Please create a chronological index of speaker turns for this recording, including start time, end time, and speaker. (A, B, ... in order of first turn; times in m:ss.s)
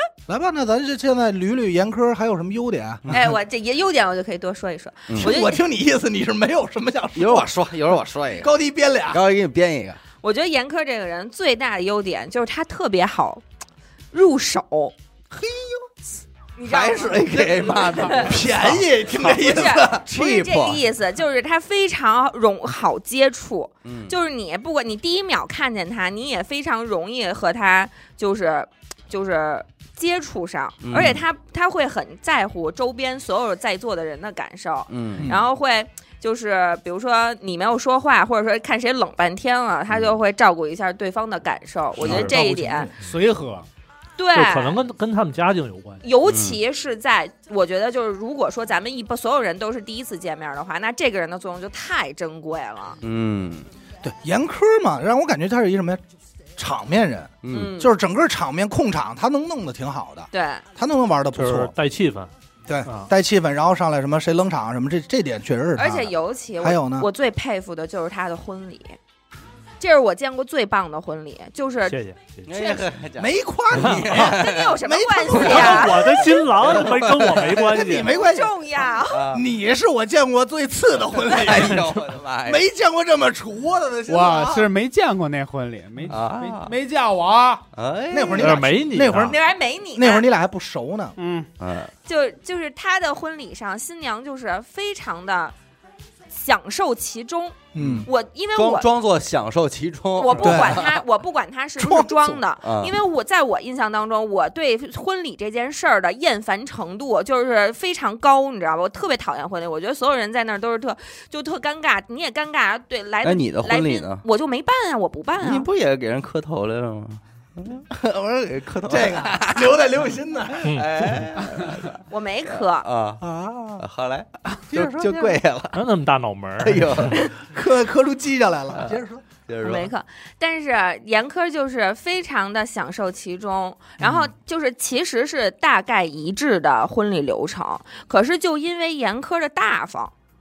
0:00.3-0:03.3 A
0:03.1-0:05.6 B
0:05.1-0:05.4 C
0:05.2-0:07.5 A
0:07.2-0:08.5 C
0:08.3-0:09.2 A
0:09.1-0:10.0 C
0:10.2-0:13.4 B
0:14.1-0:15.0 B
0:15.3-0:15.9 A
0:16.6-0:18.4 B
0:16.6-0:20.8 C
0:17.0-0:20.1 A
0:19.2-0:42.9 B
0:23.8-0:24.2 C
0:30.8-0:31.2 C
0:34.9-0:35.3 C
0:35.2-0:35.5 A
0:39.9-0:40.2 C
0:42.0-0:42.9 A
0:42.1-0:43.7 D
0:44.2-0:44.8 B
0:44.3-0:46.0 E
0:46.0-0:53.0 B
0:46.3-0:46.6 C
0:53.0-0:53.7 C
0:54.0-0:56.0 A
0:56.6-1:01.7 A
0:57.4-0:57.7 C
0:57.5-0:57.9 B
1:00.3-1:00.6 B
1:01.3-1:02.3 E
1:02.7-1:07.1 A
1:02.8-1:03.1 E
1:05.8-1:09.0 B
1:09.8-1:12.0 B
1:11.9-1:12.5 E
1:12.5-1:14.8 C
1:12.5-1:12.9 B
1:13.2-1:24.7 A
1:13.7-1:14.1 E
1:14.1-1:16.3 B
1:15.3-1:15.9 C
1:15.3-1:18.2 E
1:16.5-1:17.7 C
1:17.9-1:19.3 B
1:19.1-1:19.4 C
1:21.1-1:22.6 C
1:21.5-1:21.8 E
1:24.1-1:27.6 D
1:26.1-1:26.8 C
1:27.7-1:28.6 C
1:28.1-1:29.4 A
1:28.4-1:29.4 E
1:29.2-1:30.3 B
1:30.0-1:31.2 A
1:31.2-1:31.5 D
1:31.6-1:31.9 C
1:32.0-1:35.6 B
1:36.3-1:38.9 B
1:37.7-1:38.1 A
1:37.8-1:41.0 C
1:40.2-1:55.7 B
1:40.4-1:40.9 A
1:41.8-1:42.4 A
1:42.6-1:43.0 C
1:53.2-1:54.2 C
1:55.4-1:59.8 C
1:58.9-2:01.2 A
2:00.7-2:03.2 C
2:02.1-2:02.9 B
2:03.2-2:03.8 A
2:03.8-2:05.8 C
2:04.7-2:05.4 A
2:05.7-2:07.2 E
2:06.6-2:07.3 C
2:07.2-2:09.2 A
2:08.7-2:09.9 C
2:09.6-2:20.1 B